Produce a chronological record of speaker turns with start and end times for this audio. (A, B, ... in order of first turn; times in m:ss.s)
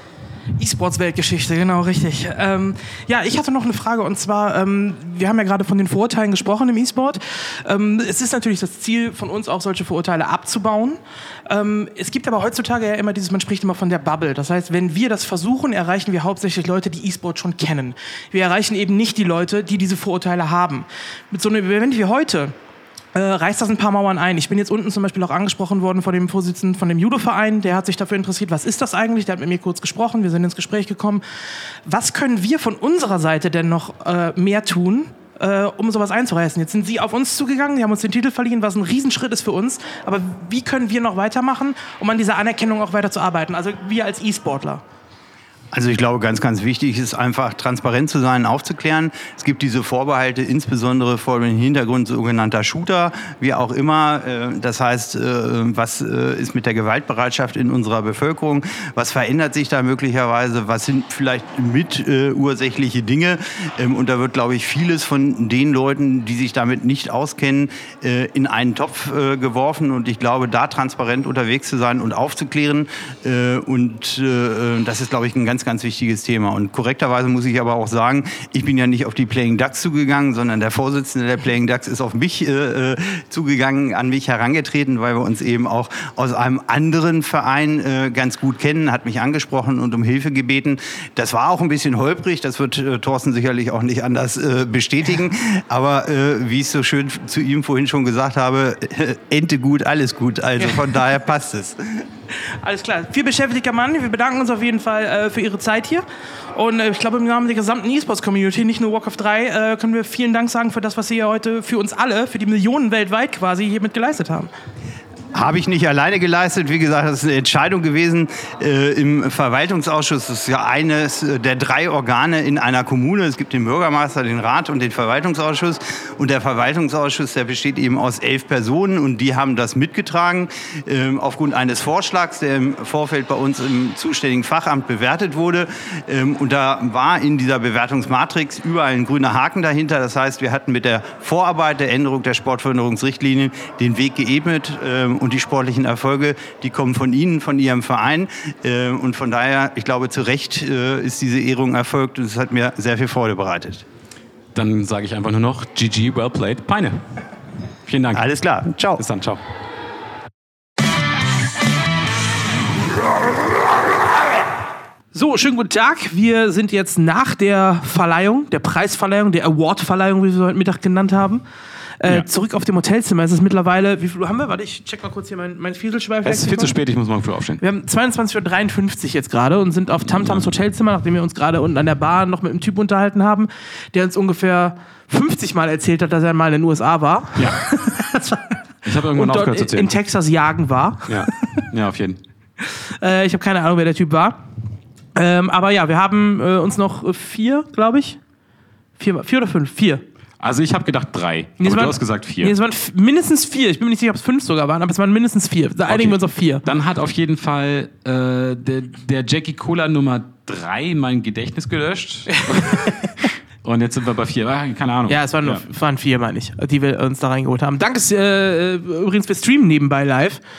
0:00.6-0:22.5 A
0:23.1-0:31.2 A
0:31.9-0:44.8 A
0:45.7-1:42.0 B
1:42.4-1:54.5 A
1:55.3-2:33.8 B
2:34.5-2:37.0 C
2:37.9-2:38.3 C
2:38.1-2:39.0 B
2:39.0-2:39.4 C
2:45.1-2:51.4 A
2:52.0-2:56.8 A
2:56.2-2:57.6 C
2:57.6-3:08.6 A
3:00.2-3:00.5 C
3:08.8-3:09.9 C
3:09.1-3:11.6 A
3:11.1-3:12.2 C
3:12.6-3:14.4 A
3:15.2-3:18.2 A
3:19.0-3:20.0 A
3:20.4-3:22.5 C
3:21.6-3:26.6 A
3:25.9-3:35.6 C
3:32.5-3:33.0 A
3:35.1-3:40.4 A